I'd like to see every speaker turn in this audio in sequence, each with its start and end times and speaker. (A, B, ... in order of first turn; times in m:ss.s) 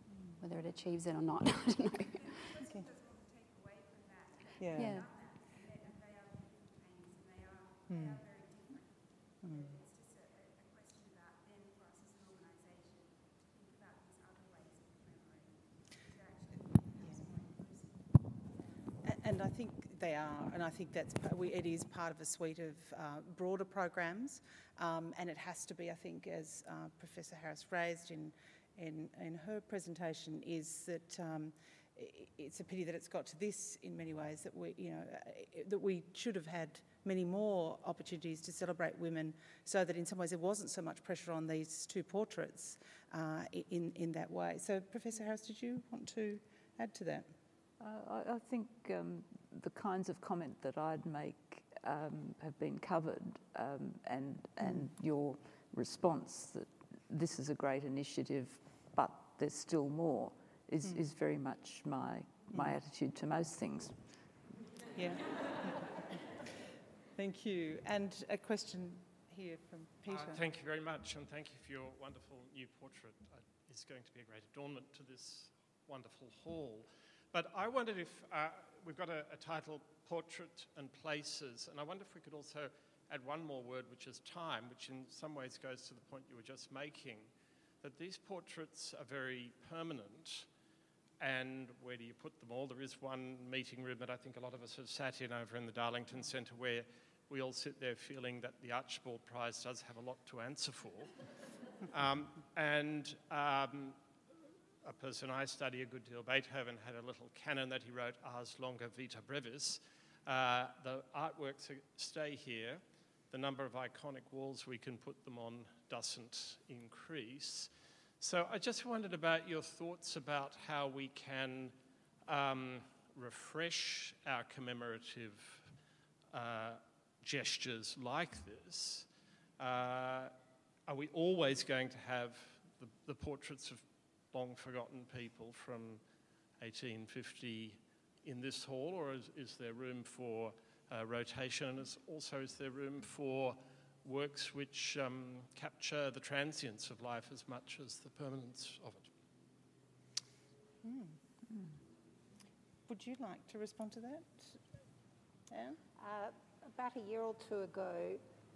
0:00.4-0:02.6 A
0:04.6-0:05.0 B
0:04.7-0:05.1 A
0:07.9-0:08.4 B
0:09.4-0:09.9 B
0:19.0-0:47.3 B
0:47.8-1:03.9 C
0:54.6-0:54.9 B
1:05.0-1:05.9 B
1:07.2-1:10.4 B
1:10.0-1:27.3 D
1:27.8-1:30.5 D
1:31.2-1:41.1 D
1:41.9-1:44.0 D
1:44.8-1:57.7 D
1:58.2-2:01.7 D
2:02.3-2:05.7 D
2:06.3-2:09.1 D
2:09.6-2:10.3 D
2:10.9-2:16.0 D
2:16.6-2:29.1 D
2:30.8-2:31.2 B
2:32.9-2:34.6 B
2:35.5-2:35.8 B
2:36.0-2:38.2 E